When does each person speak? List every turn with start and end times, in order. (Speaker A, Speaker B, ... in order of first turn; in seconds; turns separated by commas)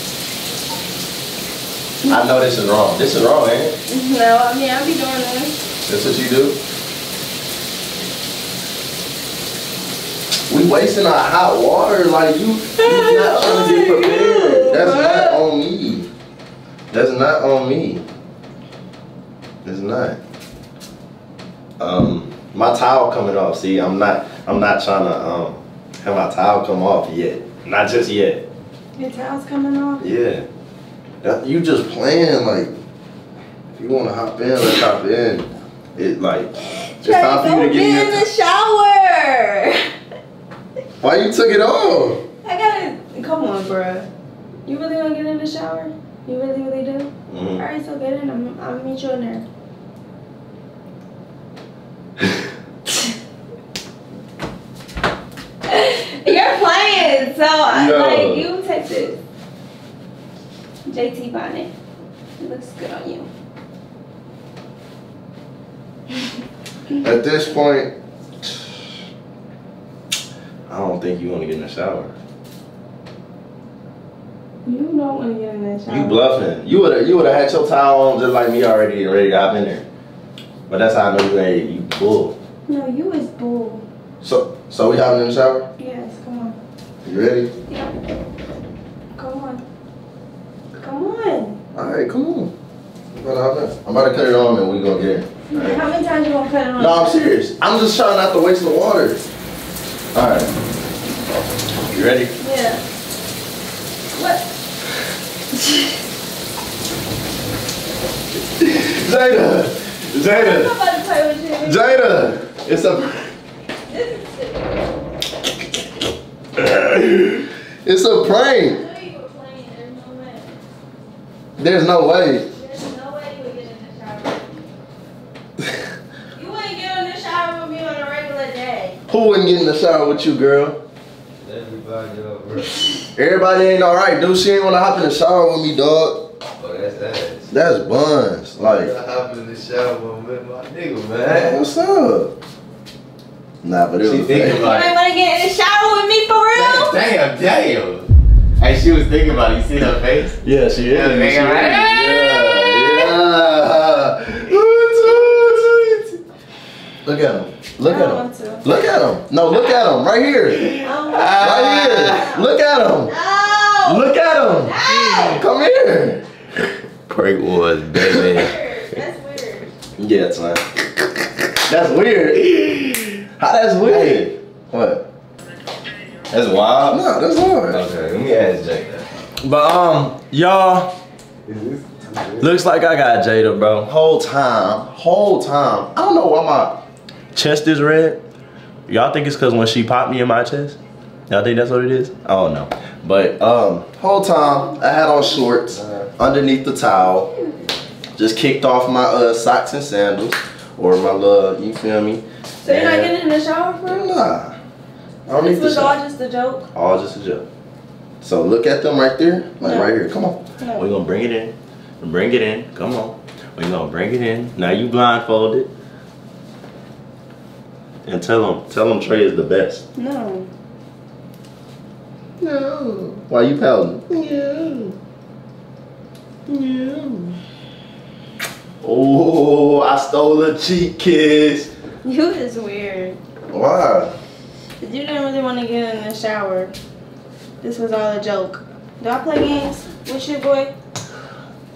Speaker A: 2.0-3.8, Speaker B: 3.9-5.6, Speaker A: 5.9-6.6, Speaker A: 10.5-16.1, Speaker B: 12.8-15.4, Speaker A: 16.9-18.1, Speaker A: 19.6-20.2, Speaker A: 21.8-28.4, Speaker B: 28.9-30.0, Speaker A: 30.0-30.4, Speaker A: 31.2-32.7, Speaker A: 33.7-38.3, Speaker B: 36.6-39.8, Speaker A: 41.0-42.2, Speaker B: 42.4-44.1, Speaker B: 44.6-49.4, Speaker A: 47.3-47.6, Speaker B: 55.7-59.2, Speaker A: 57.7-58.5, Speaker B: 60.9-61.7, Speaker B: 62.4-63.3, Speaker A: 67.0-68.8, Speaker A: 70.7-72.1, Speaker B: 74.6-76.2, Speaker A: 75.9-79.9, Speaker A: 80.7-82.4, Speaker B: 82.7-83.8, Speaker A: 84.2-85.7, Speaker B: 85.8-86.6, Speaker A: 87.0-87.5, Speaker B: 87.7-87.9, Speaker B: 89.1-89.6, Speaker B: 90.8-91.6, Speaker A: 91.7-92.5, Speaker A: 93.1-95.8, Speaker B: 95.5-97.2, Speaker A: 96.8-99.2, Speaker A: 100.1-100.5, Speaker A: 101.9-102.3, Speaker B: 102.4-102.8, Speaker B: 104.1-104.4, Speaker A: 108.6-110.8, Speaker B: 110.2-111.9, Speaker A: 111.6-113.3, Speaker B: 113.8-114.9, Speaker A: 116.5-118.8, Speaker B: 118.5-120.6, Speaker A: 121.6-122.5, Speaker B: 122.4-124.6, Speaker B: 126.3-129.0, Speaker A: 129.1-130.8, Speaker C: 131.4-132.8, Speaker A: 133.1-136.3, Speaker C: 136.6-137.5, Speaker A: 137.5-138.9, Speaker C: 138.6-141.6, Speaker A: 141.3-142.3, Speaker A: 143.6-144.7, Speaker C: 144.0-144.9, Speaker B: 144.4-147.0, Speaker C: 146.5-152.1, Speaker A: 150.4-156.2, Speaker B: 151.9-153.1, Speaker A: 157.0-160.8, Speaker B: 157.8-158.7, Speaker C: 160.6-162.2, Speaker B: 160.8-161.4, Speaker A: 161.3-163.1, Speaker B: 162.1-162.4, Speaker B: 163.1-165.4, Speaker A: 163.8-166.2, Speaker C: 167.1-168.5, Speaker B: 168.3-169.7, Speaker A: 170.0-170.6, Speaker A: 171.5-175.1, Speaker C: 173.8-174.3, Speaker C: 176.2-176.9, Speaker A: 176.8-177.8, Speaker C: 177.7-179.1, Speaker A: 179.4-180.9, Speaker C: 181.5-182.5, Speaker A: 182.4-186.8, Speaker A: 187.3-188.2, Speaker A: 188.9-190.8, Speaker A: 191.3-197.3, Speaker B: 194.4-195.4, Speaker C: 195.8-196.1, Speaker B: 196.9-197.7, Speaker A: 198.2-203.1, Speaker B: 202.6-204.1, Speaker A: 203.8-204.6, Speaker A: 205.3-206.0, Speaker B: 205.3-206.7, Speaker A: 206.7-207.5, Speaker A: 208.2-215.7, Speaker B: 209.6-209.9, Speaker B: 210.6-210.8, Speaker A: 218.0-219.8, Speaker B: 219.9-220.5, Speaker A: 222.4-225.0, Speaker A: 226.5-227.3, Speaker A: 228.8-231.7, Speaker B: 232.0-233.2, Speaker A: 233.5-234.1, Speaker B: 234.8-236.7, Speaker B: 237.6-240.7